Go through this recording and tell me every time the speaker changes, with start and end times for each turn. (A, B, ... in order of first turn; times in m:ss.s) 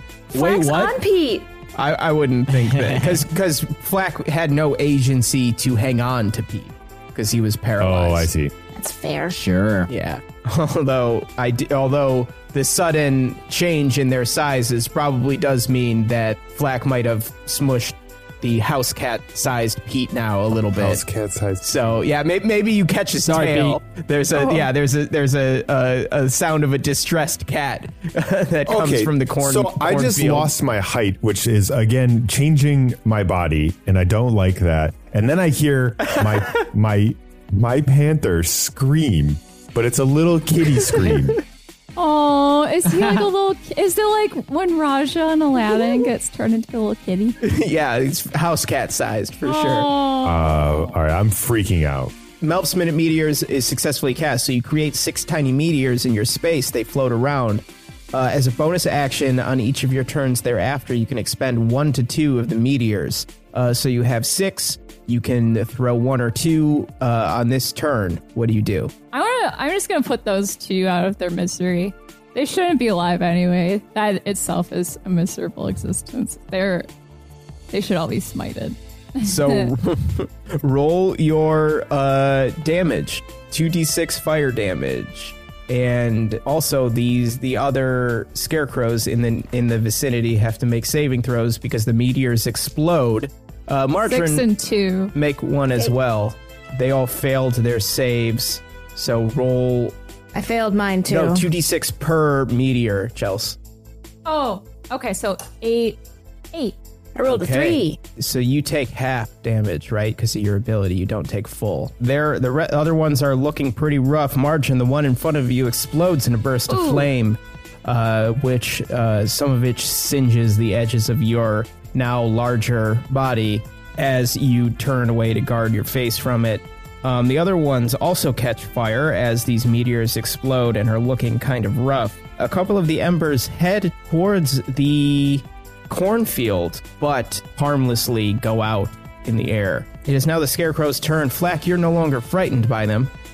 0:00.3-0:01.0 A
0:00.3-0:01.5 B
0:01.8-0:08.3 C
0:02.8-0:03.2 A
0:07.8-0:08.5 D
0:08.7-0:09.4 B
0:09.4-0:09.9 A
0:09.9-0:21.0 C
0:20.6-0:21.8 D
0:21.6-0:30.5 C
0:23.2-0:23.8 A
0:24.4-0:24.6 B
0:28.7-0:41.4 D
0:36.1-0:36.6 C
0:42.0-0:47.4 E
0:47.4-0:49.9 C
0:49.4-0:50.9 E
0:50.2-0:52.1 D
0:52.4-1:08.9 C
1:09.1-1:16.9 E
1:17.7-1:19.7 E
1:19.2-1:34.5 C
1:34.0-1:35.1 E
1:35.1-1:40.0 C
1:40.3-1:41.5 B
1:41.1-1:43.6 C
1:44.3-1:46.0 E
1:47.2-1:48.0 B
1:47.3-2:23.1 C
1:56.7-1:57.1 B